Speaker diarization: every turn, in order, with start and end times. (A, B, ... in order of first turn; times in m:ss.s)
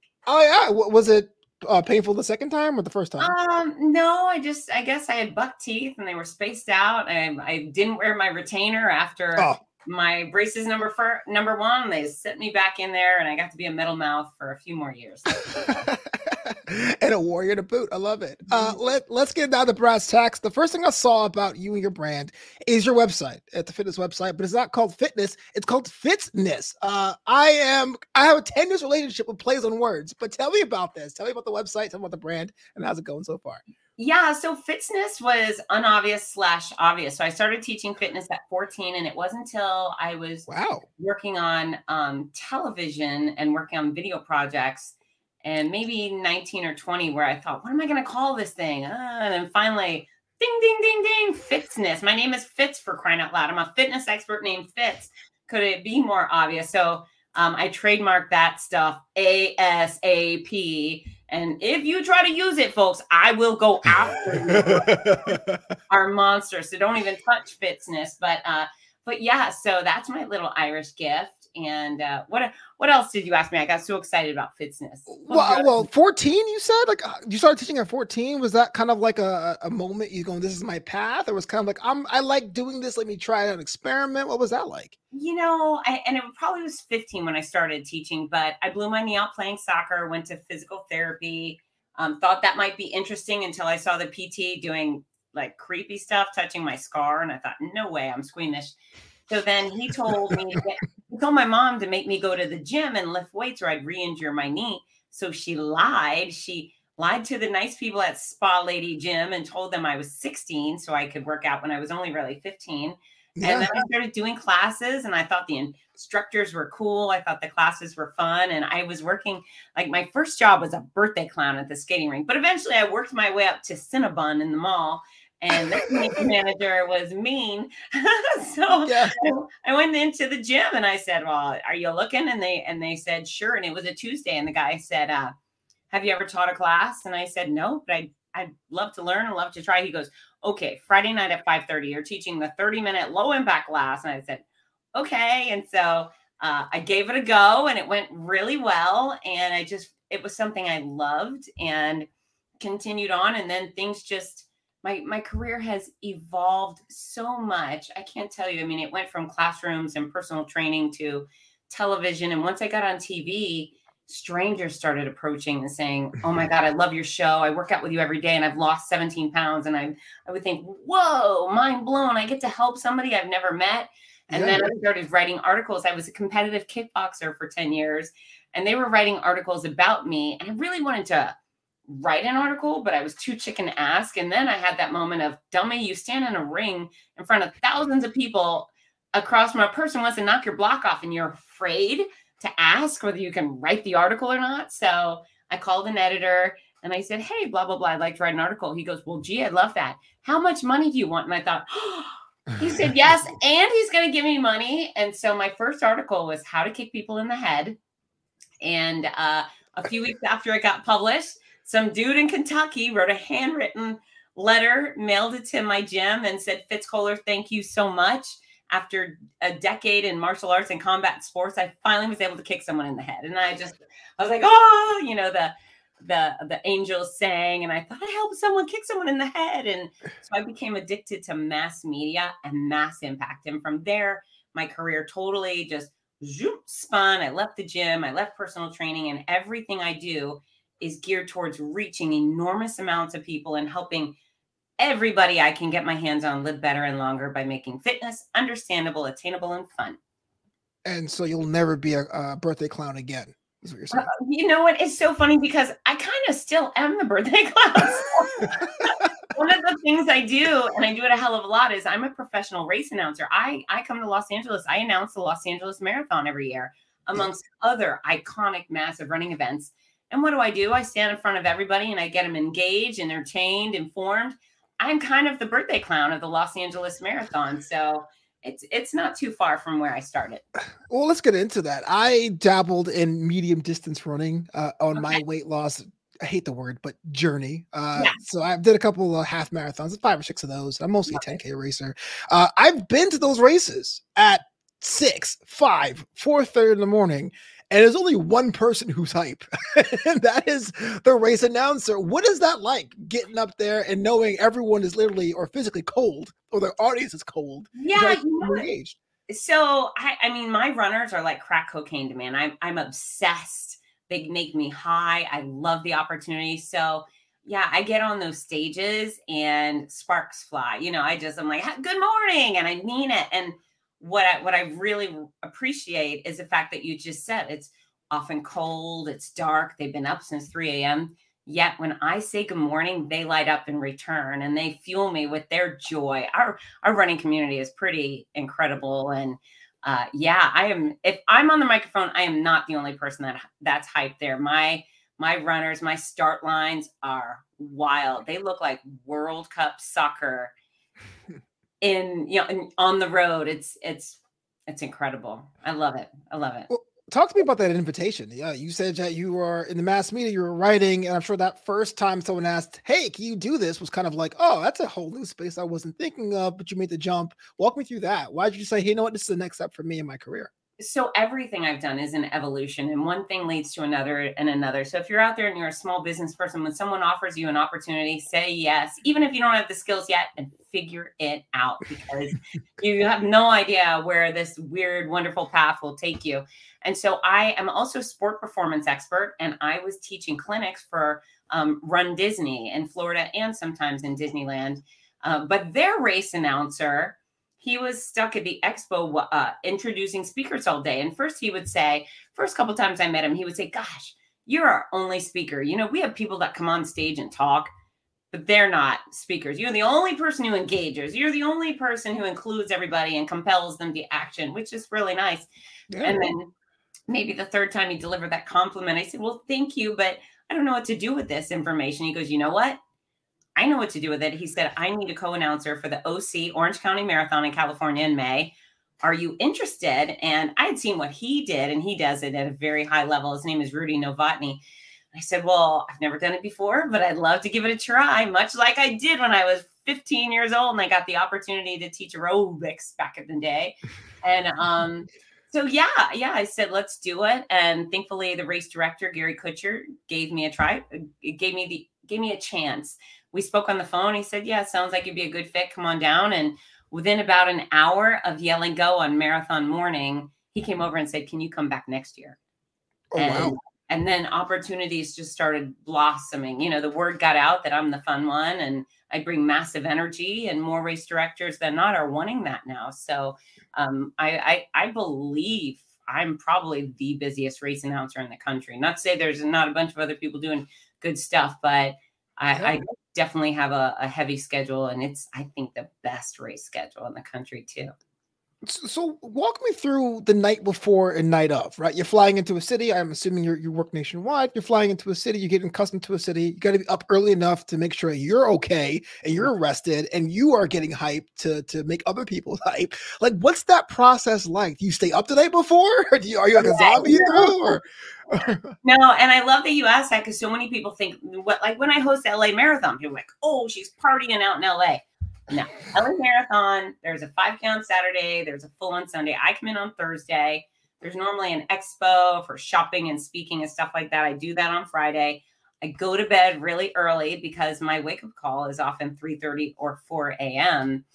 0:00.2-0:03.3 A
0:03.2-0:15.9 B
0:15.5-0:33.6 A
0:34.0-1:05.3 B
0:40.5-0:40.8 A
1:04.5-1:05.6 A
1:05.9-1:15.9 B
1:15.1-1:25.0 A
1:25.1-1:38.8 B
1:39.3-2:15.3 B
1:53.4-1:53.8 A
2:08.8-2:09.2 A
2:15.9-2:24.4 B
2:24.9-2:32.1 B
2:32.6-3:01.4 B
2:54.3-2:54.7 A
3:01.9-3:27.8 B
3:28.6-4:04.1 B
4:04.8-4:10.0 B
4:10.8-4:14.1 A
4:13.9-4:40.4 B
4:40.9-5:09.0 A
4:45.0-4:45.2 B
4:51.1-4:51.4 B
5:07.8-5:08.7 B
5:09.3-5:50.5 B
5:51.8-5:56.7 B
5:56.7-6:10.5 A
6:10.8-6:47.7 B
6:48.3-6:55.5 B
6:55.9-6:56.3 A
6:56.0-6:56.5 B
6:57.1-7:02.8 B
7:03.6-7:14.6 B
7:15.1-7:42.4 B
7:43.1-7:43.6 A
7:43.1-8:07.9 B
8:08.6-8:28.7 A
8:26.6-8:27.7 B
8:28.8-8:51.0 B